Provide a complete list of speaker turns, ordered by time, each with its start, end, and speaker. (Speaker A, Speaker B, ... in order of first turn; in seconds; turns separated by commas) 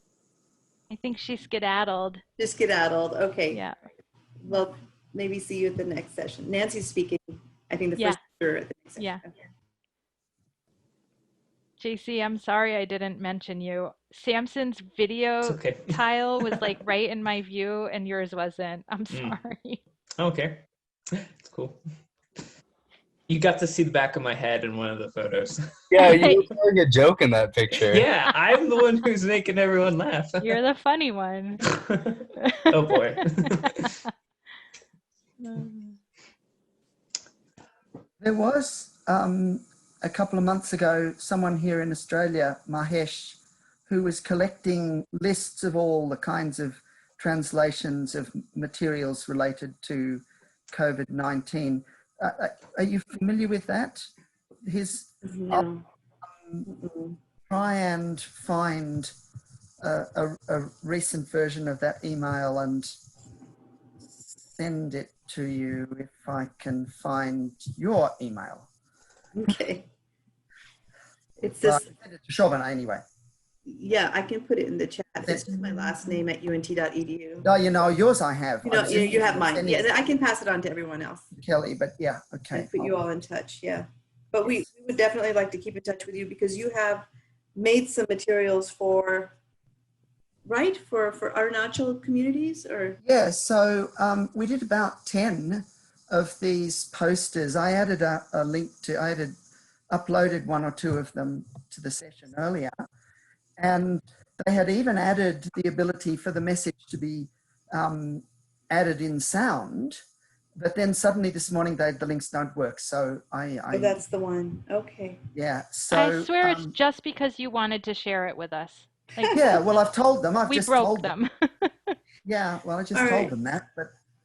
Speaker A: 0.9-2.2, Speaker B: 2.4-3.6, Speaker B: 4.4-9.3, Speaker A: 11.8-19.8, Speaker C: 15.4-16.6, Speaker C: 19.1-19.4, Speaker C: 20.2-21.8, Speaker C: 23.3-26.0, Speaker D: 25.9-28.1, Speaker A: 26.1-26.4, Speaker C: 27.8-30.6, Speaker A: 30.5-31.6, Speaker C: 31.8-33.9, Speaker A: 35.4-35.9, Speaker E: 38.2-54.1, Speaker E: 54.6-55.6, Speaker B: 55.2-55.8, Speaker E: 56.4-56.8, Speaker B: 56.8-57.1, Speaker E: 57.5-59.1, Speaker E: 59.8-63.0, Speaker E: 64.1-68.7, Speaker B: 69.3-69.9, Speaker B: 71.4-71.9, Speaker E: 71.5-73.0, Speaker B: 73.7-77.5, Speaker E: 75.2-76.0, Speaker E: 77.4-79.8, Speaker B: 78.6-81.3, Speaker E: 81.3-82.9, Speaker B: 82.5-89.3, Speaker B: 90.5-93.0, Speaker E: 93.0-99.3, Speaker E: 99.9-102.7, Speaker E: 103.6-110.0, Speaker E: 110.5-114.0, Speaker B: 113.7-115.2, Speaker E: 115.3-116.7, Speaker A: 115.9-119.6, Speaker E: 119.3-121.2, Speaker A: 120.5-121.9, Speaker E: 122.2-123.9, Speaker B: 122.9-123.3